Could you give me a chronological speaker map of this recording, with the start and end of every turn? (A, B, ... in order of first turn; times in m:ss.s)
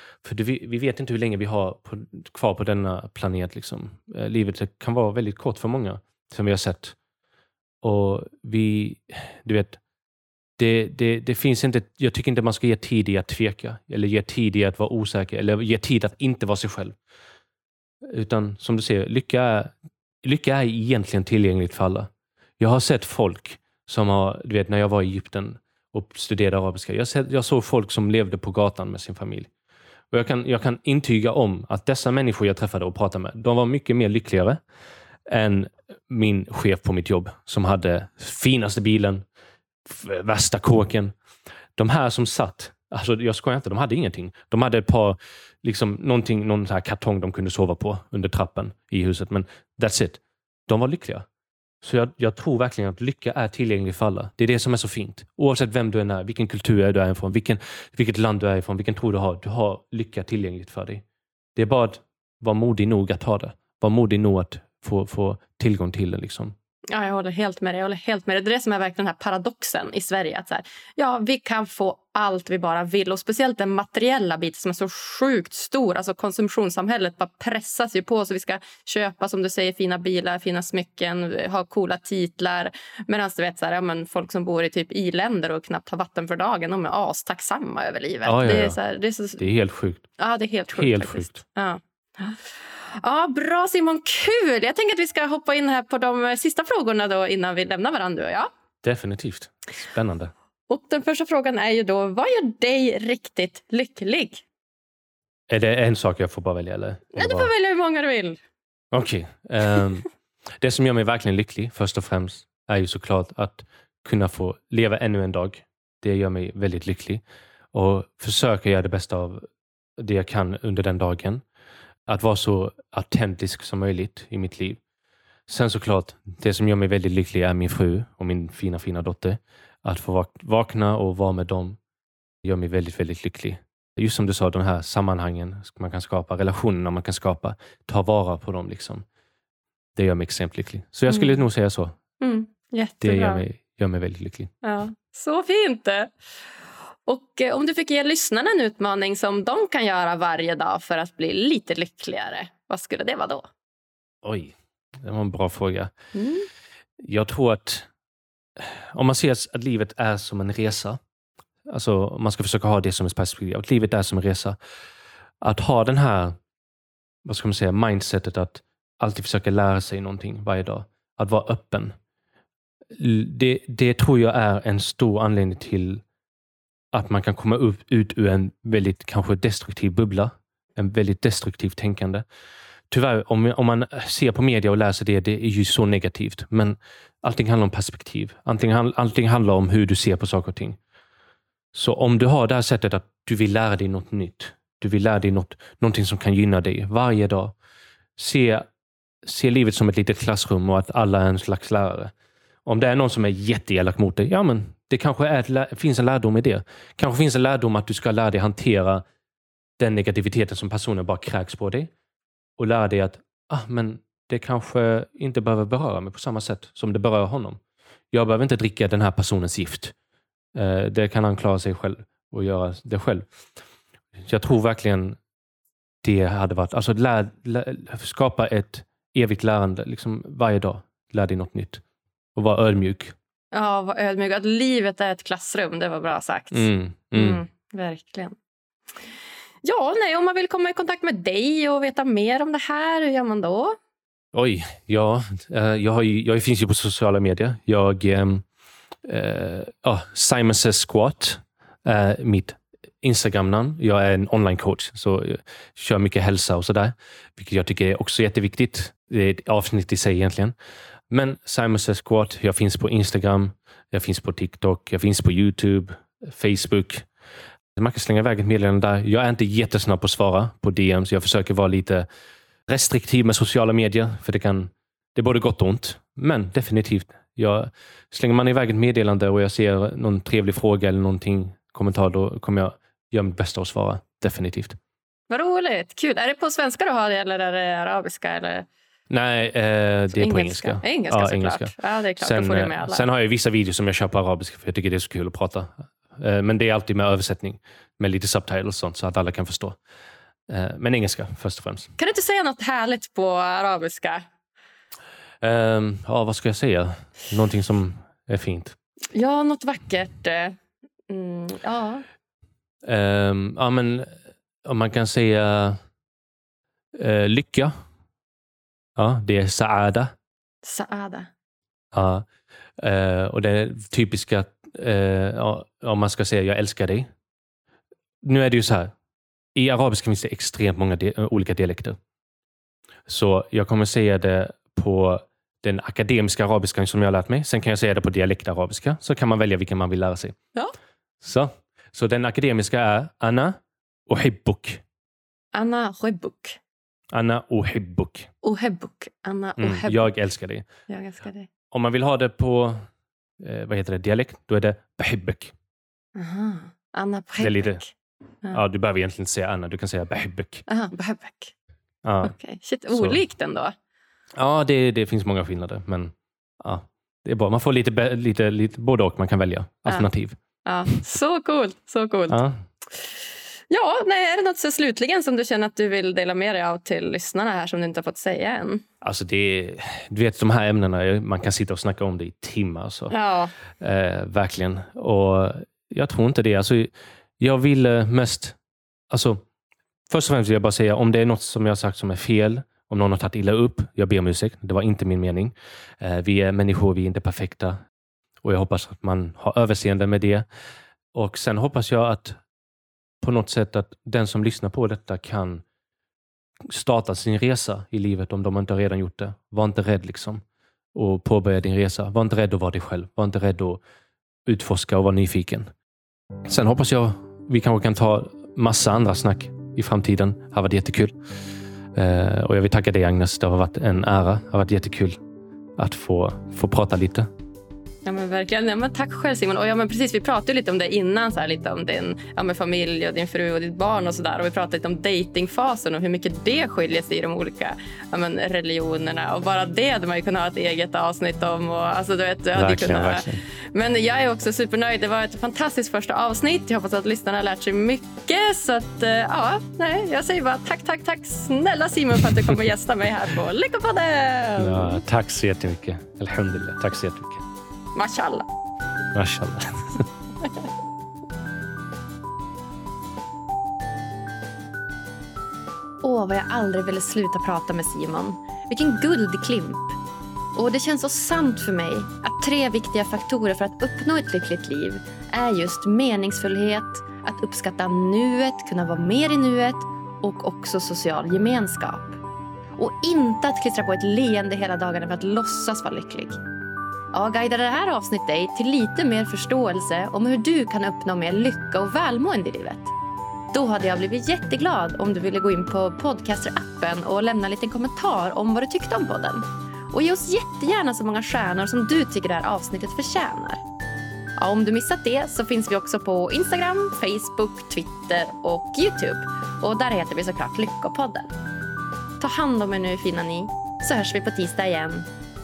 0:00.2-0:07.0 A
0:07.8-0:09.8 A
0:10.6-0:17.0 A
0:18.0-0:29.5 A
0:30.1-0:34.6 A
0:35.3-0:39.2 A
0:39.8-0:41.1 A
0:41.8-0:51.2 A
0:51.8-1:01.0 A
1:01.6-1:06.5 A
1:06.9-1:10.6 B
1:11.0-1:13.0 C
1:11.4-1:29.4 B
1:28.2-1:28.8 A
1:29.4-1:30.1 A
1:30.2-1:32.4 B
1:30.7-1:31.4 A
1:33.0-1:38.4 B
1:38.8-1:40.3 A
1:40.7-1:44.4 B
1:45.5-1:47.5 A
1:47.1-1:48.4 B
1:48.9-1:50.1 A
1:50.6-1:59.4 A
2:00.0-2:01.4 A
2:02.1-2:04.8 A
2:05.5-2:11.8 A
2:12.4-2:19.0 A
2:20.0-2:22.0 A
2:21.1-2:21.4 B
2:22.2-2:23.4 B
2:23.0-2:24.5 A
2:24.6-2:26.1 B
2:27.1-2:33.4 B
2:34.2-2:35.9 A
2:37.0-2:37.9 A
2:38.6-2:41.0 A
2:41.7-2:44.6 A
2:45.4-2:46.4 A
2:47.2-2:52.0 A
2:52.9-2:56.0 A
2:56.9-3:02.2 A
3:02.9-3:10.8 A
3:11.7-3:17.5 A
3:18.2-3:18.6 A
3:19.2-3:22.1 A
3:22.6-3:29.0 A
3:29.8-3:31.9 A
3:32.6-3:37.6 A
3:38.1-3:39.9 A
3:40.5-3:43.3 A
3:44.2-3:45.2 A
3:46.0-3:51.8 A
3:52.3-3:53.1 A
3:53.5-3:58.3 B
3:56.5-3:57.4 A
3:59.6-4:03.7 B
4:04.3-4:08.4 A
4:09.0-4:20.5 A
4:21.1-4:27.1 A
4:27.8-4:32.0 A
4:32.7-4:44.8 A
4:45.3-4:48.6 B
4:49.1-4:59.8 A
4:50.2-4:53.0 B
5:00.5-5:01.9 A
5:02.0-5:03.9 C
5:03.2-5:04.2 B
5:05.4-5:08.8 A
5:09.2-5:09.8 C
5:09.5-5:10.5 B
5:11.1-5:12.0 B
5:12.8-5:15.8 A
5:16.9-5:17.7 A
5:19.0-5:20.1 A
5:20.7-5:21.3 C
5:21.9-5:22.2 A
5:22.8-5:27.1 A
5:28.2-5:28.9 A
5:29.5-5:32.0 A
5:33.1-5:40.4 A
5:41.2-5:44.8 A
5:45.5-5:46.5 C
5:47.1-5:48.3 A
5:48.4-5:49.9 C
5:49.6-5:50.6 A
5:50.9-5:51.5 C
5:51.7-5:52.8 A
5:53.4-5:55.5 A
5:56.2-5:57.5 C
5:57.4-5:57.8 A
5:58.5-6:00.6 A
6:00.7-6:01.5 C
6:02.0-6:02.3 A
6:02.5-6:03.7 C
6:02.7-6:03.2 B
6:02.9-6:03.2 A
6:04.4-6:10.4 A
6:10.6-6:12.3 C
6:10.9-6:12.3 B
6:12.3-6:12.6 A
6:13.7-6:14.1 C
6:13.8-6:18.8 B
6:19.0-6:23.1 A
6:23.1-6:23.4 B
6:23.8-6:28.6 A
6:29.1-6:29.4 A
6:30.1-6:37.8 A
6:38.4-6:40.4 A
6:41.1-6:42.4 A
6:43.2-6:45.6 A
6:46.7-6:50.4 A
6:50.9-6:53.8 A
6:54.4-6:55.7 A
6:56.4-7:01.1 A
7:01.9-7:05.2 A
7:05.8-7:07.3 A
7:08.1-7:35.0 B
7:22.5-7:23.4 A
7:34.6-7:37.4 A
7:38.0-7:38.3 C
7:39.1-7:40.0 A
7:46.0-7:50.0 C
7:50.5-8:02.2 C
8:02.8-8:06.4 C
8:07.1-8:12.9 C
8:13.5-8:23.6 C
8:24.4-8:31.3 C
8:32.2-8:35.0 C